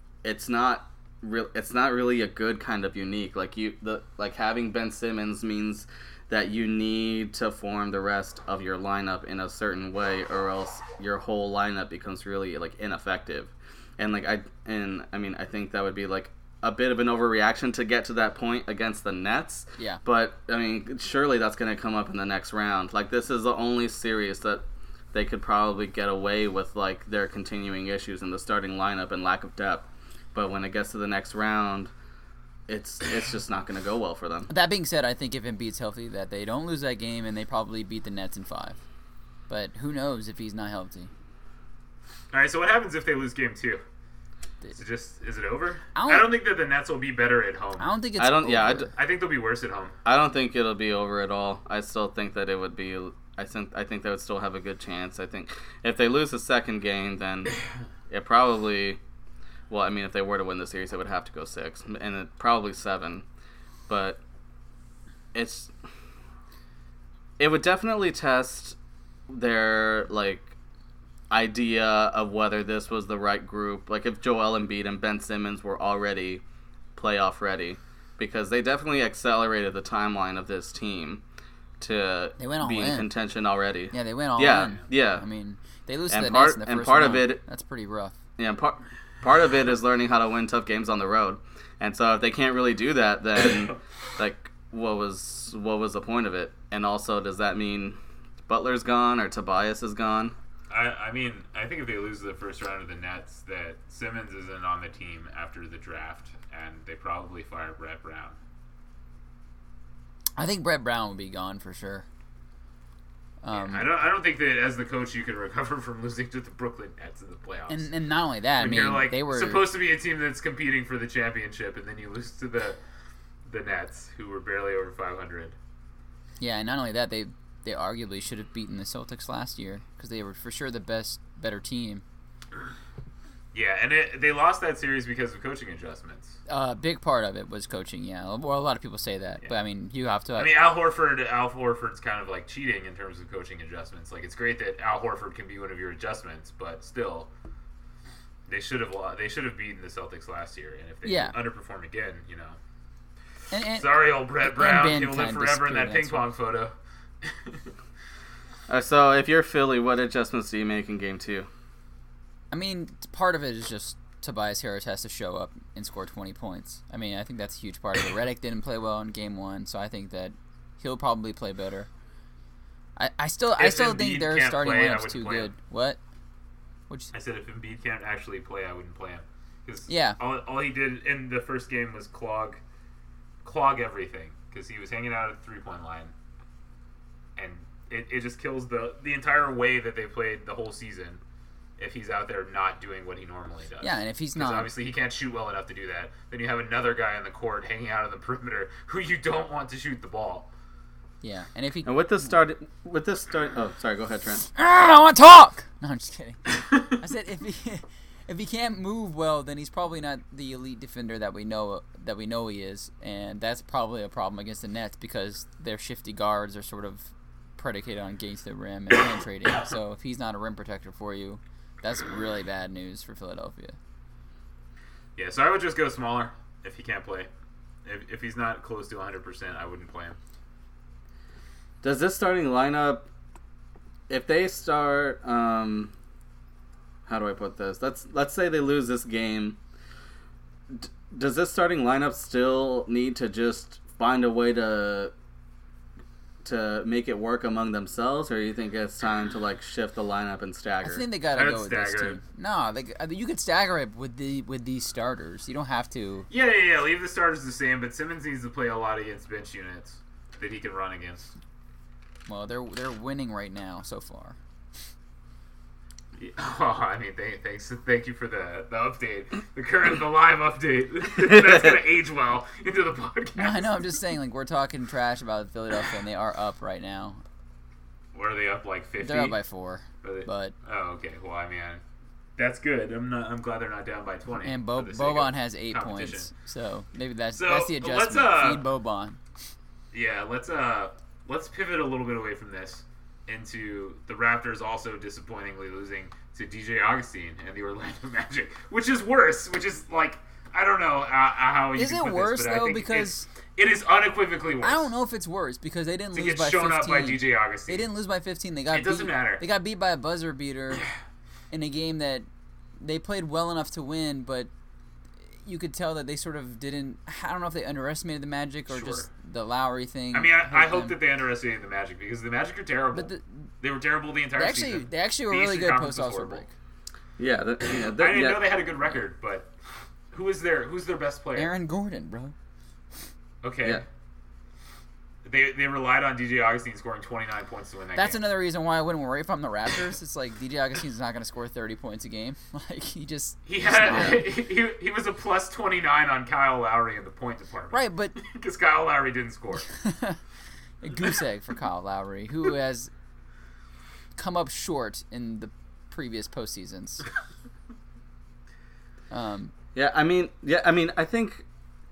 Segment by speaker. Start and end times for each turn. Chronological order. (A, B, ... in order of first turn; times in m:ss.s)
0:00.2-0:31.9 A
0:32.7-0:34.5 A
0:34.5-0:38.8 B
0:39.5-0:41.1 B
0:42.3-0:43.8 C
0:44.7-0:47.9 C
0:46.0-0:46.3 B
0:47.8-0:48.9 B
0:48.2-0:48.9 A
0:49.0-0:50.0 C
0:50.0-0:57.6 A
0:58.1-0:59.0 A
0:59.7-1:03.2 A
1:03.9-1:04.2 A
1:05.3-1:05.7 A
1:07.4-1:08.8 A
1:09.3-1:10.5 A
1:11.3-1:16.4 A
1:17.0-1:21.2 A
1:21.8-1:25.2 A
1:22.4-1:23.1 B
1:23.9-1:28.2 B
1:26.1-1:27.4 A
1:28.4-1:40.4 A
1:40.7-1:48.4 C
1:50.4-1:52.1 B
1:53.4-1:53.9 B
1:53.5-1:57.9 C
1:57.7-1:59.6 B
1:58.6-2:02.8 C
2:03.5-2:05.6 C
2:06.4-2:12.0 B
2:13.5-2:16.4 C
2:16.5-2:20.5 B
2:20.4-2:27.3 C
2:28.5-2:32.6 C
2:31.0-2:31.4 B
2:33.5-2:36.2 B
2:33.7-2:37.7 C
2:38.7-2:41.5 A
2:42.5-2:51.9 B
2:53.0-2:56.0 B
2:53.6-2:55.5 C
2:57.1-3:02.6 C
2:59.9-3:00.2 B
3:03.4-3:06.1 C
3:07.4-3:11.2 C
3:11.8-3:20.5 C
3:13.8-3:14.7 B
3:21.2-3:21.9 B
3:21.8-3:24.4 A
3:24.4-3:43.8 B
3:45.2-3:47.3 C
3:47.8-3:50.2 C
3:51.8-3:53.1 A
3:54.1-3:55.9 A
3:57.1-3:59.6 A
4:00.7-4:05.1 A
4:06.4-4:11.0 A
4:10.8-4:16.3 B
4:11.3-4:12.2 C
4:16.3-4:21.3 C
4:22.3-4:24.4 B
4:26.2-4:33.8 C
4:33.4-4:37.2 B
4:38.1-4:39.4 C
4:39.0-4:40.5 B
4:40.0-4:41.8 C
4:42.4-4:46.3 C
4:44.4-4:49.2 B
4:47.4-4:48.6 C
4:49.9-5:04.9 C
5:01.8-5:03.3 B
5:04.6-5:10.9 B
5:06.1-5:07.9 C
5:08.7-5:09.4 C
5:11.5-5:12.3 B
5:12.8-5:14.5 B
5:15.4-5:21.0 B
5:18.7-5:19.1 C
5:20.1-5:23.1 C
5:22.9-5:23.5 B
5:23.6-5:26.5 C
5:24.3-5:26.5 B
5:27.2-5:28.6 A
5:28.0-5:29.5 C
5:30.1-5:31.5 C
5:31.4-5:32.4 B
5:33.4-5:33.9 C
5:35.2-5:38.2 C
5:38.0-5:44.3 B
5:43.5-5:49.7 C
5:43.9-5:44.2 A
5:47.7-5:48.2 B
5:49.7-5:50.2 B
5:50.8-5:52.9 B
5:54.2-5:57.1 B
5:59.1-5:59.5 B
5:59.7-6:01.4 A